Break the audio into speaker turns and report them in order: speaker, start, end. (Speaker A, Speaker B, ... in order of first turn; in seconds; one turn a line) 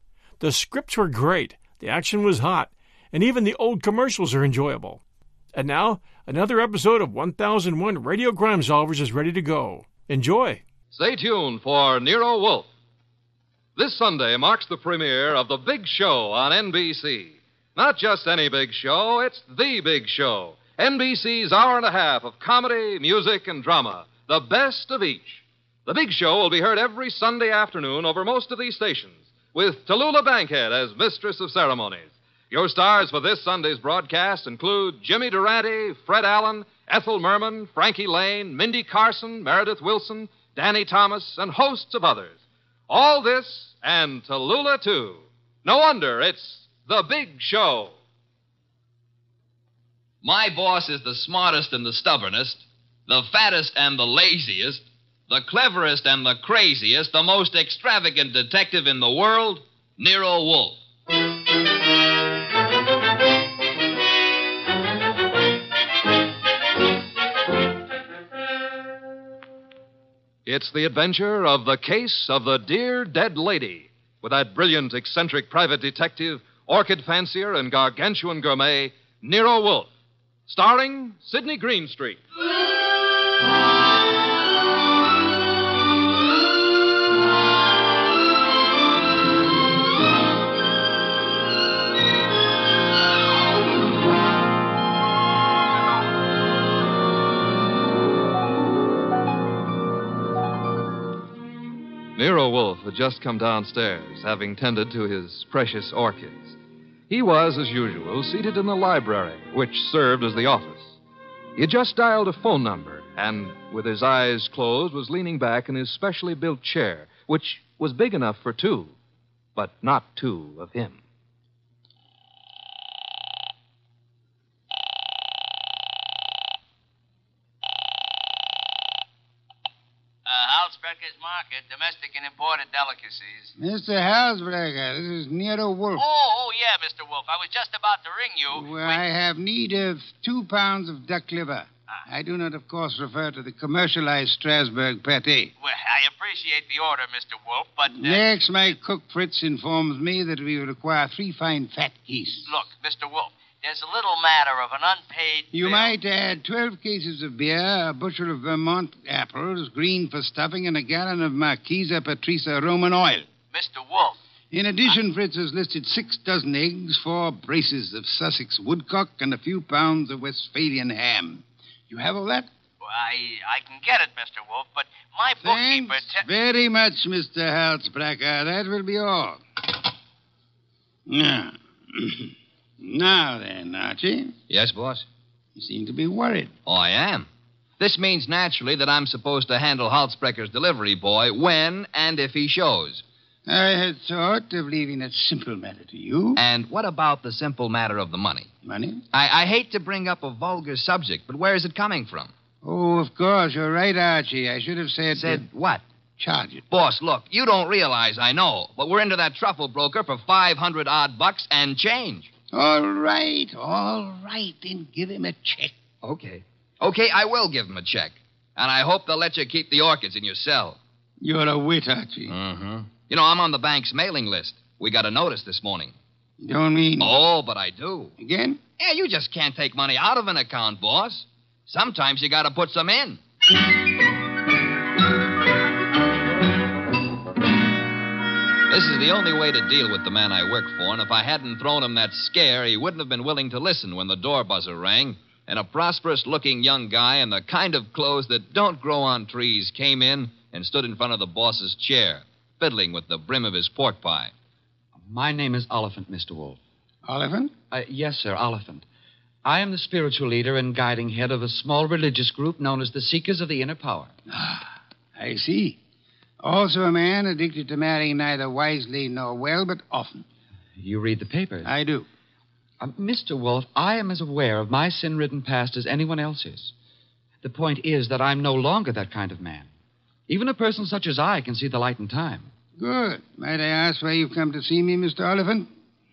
Speaker A: 0.4-5.0
Speaker A: 5.5-10.6
Speaker B: 10.9-12.7
Speaker B: 13.8-48.0
Speaker C: 50.2-60.8
Speaker B: 70.5-79.9
Speaker B: 80.5-82.2
Speaker B: 102.2-106.6
Speaker B: 107.1-111.0
Speaker B: 111.6-119.0
Speaker B: 119.6-121.0
Speaker D: 130.3-133.5
Speaker E: 133.6-136.0
Speaker D: 136.0-139.0
Speaker E: 138.5-145.5
Speaker D: 145.6-148.7
Speaker E: 148.0-152.5
Speaker D: 152.5-155.9
Speaker E: 155.5-163.2
Speaker D: 163.5-164.2
Speaker E: 164.5-172.5
Speaker D: 172.8-176.2
Speaker E: 175.4-179.4
Speaker E: 181.1-184.3
Speaker C: 184.5-185.1
Speaker E: 185.6-186.5
Speaker C: 186.7-187.3
Speaker C: 187.8-193.0
Speaker E: 193.5-196.4
Speaker C: 196.4-198.5
Speaker E: 198.6-199.0
Speaker C: 199.1-202.3
Speaker E: 202.6-205.4
Speaker C: 205.1-205.8
Speaker E: 206.2-206.6
Speaker C: 206.7-212.3
Speaker E: 212.5-215.7
Speaker C: 216.0-220.8
Speaker E: 221.2-222.3
Speaker C: 222.3-225.9
Speaker E: 226.4-227.1
Speaker C: 227.0-228.2
Speaker E: 228.2-228.6
Speaker C: 228.8-233.2
Speaker C: 238.7-254.3
Speaker F: 255.1-256.6
Speaker E: 257.1-257.5
Speaker F: 257.7-258.9
Speaker F: 259.4-264.1
Speaker E: 264.4-265.8
Speaker E: 266.4-270.2
Speaker F: 270.8-271.7
Speaker E: 271.6-272.1
Speaker F: 272.8-276.7
Speaker F: 277.4-279.7
Speaker F: 280.3-282.5
Speaker E: 282.8-285.7